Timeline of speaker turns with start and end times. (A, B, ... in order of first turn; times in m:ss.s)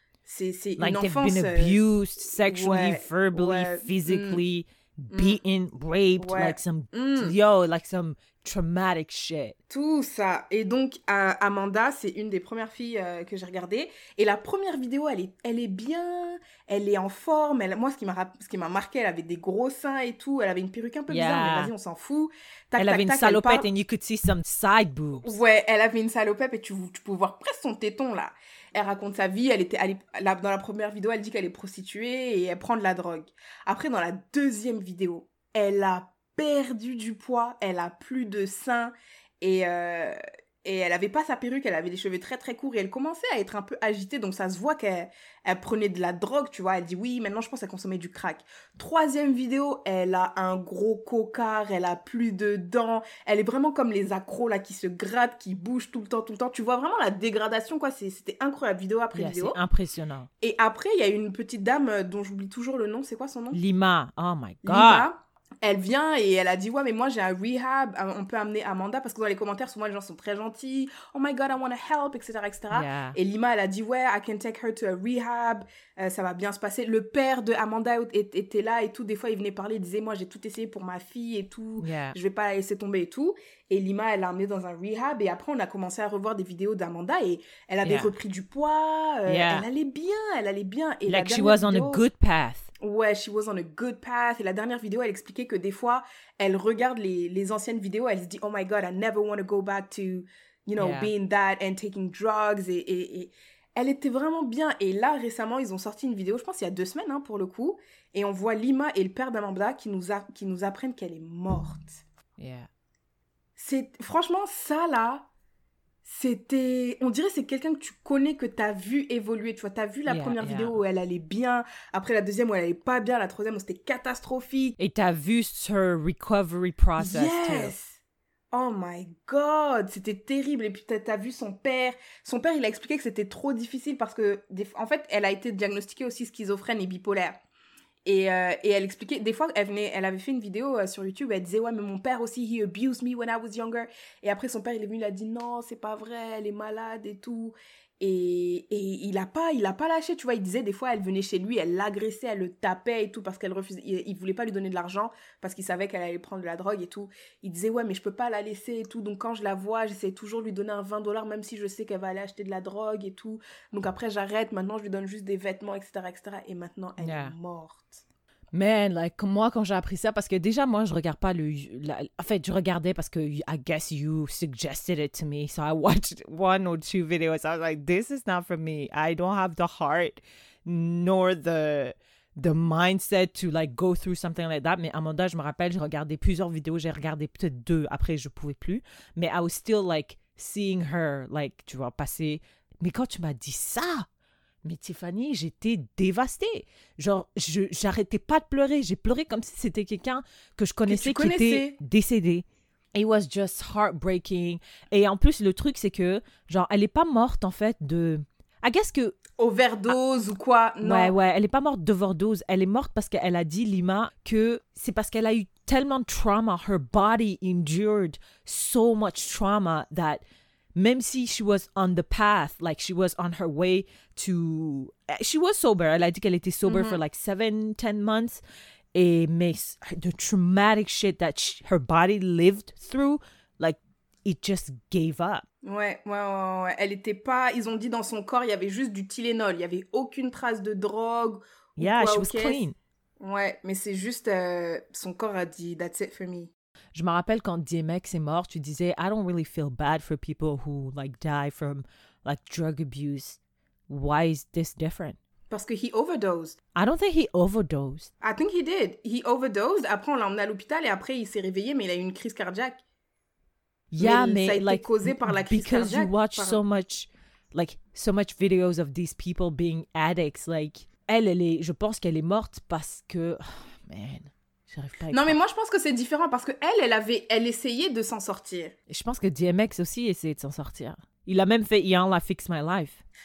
0:00.2-0:01.8 A
0:00.8-0:09.6 B
0:02.4-0:04.4 A
0:05.1-0:05.4 A
0:06.2-0:07.3 A
0:09.7-0:23.7 A
0:21.1-0:21.7 B
0:22.8-0:25.4 B
0:25.2-0:59.6 A
0:59.1-1:00.3 B
1:00.4-1:03.6 A
1:03.5-1:05.1 B
1:04.6-1:32.0 A
1:12.7-1:13.2 B
1:21.8-1:22.2 B
1:27.8-1:28.1 B
1:29.2-1:29.6 B
1:31.1-1:32.7 B
1:32.8-1:52.0 A
1:40.8-1:41.1 B
1:52.4-1:52.7 B
1:53.6-1:55.3 A
1:56.0-2:04.8 A
2:00.0-2:00.8 B
2:04.8-2:07.7 B
2:07.0-2:08.0 A
2:08.5-2:17.4 A
2:18.0-2:48.0 A
2:47.0-2:47.3 B
2:48.5-3:14.1 B
3:14.6-3:29.2 B
3:20.9-3:21.8 A
3:29.4-3:31.1 A
3:30.8-3:40.2 B
3:40.8-3:48.4 B
3:46.6-3:47.0 A
3:48.9-3:55.4 B
3:55.6-4:02.6 A
4:01.8-4:02.8 B
4:03.2-4:06.5 A
4:06.9-4:15.2 B
4:15.5-4:16.6 A
4:16.7-4:18.1 B
4:18.2-4:22.8 A
4:23.9-4:35.4 B
4:24.0-4:26.6 A
4:35.1-4:38.7 A
4:38.9-4:43.0 B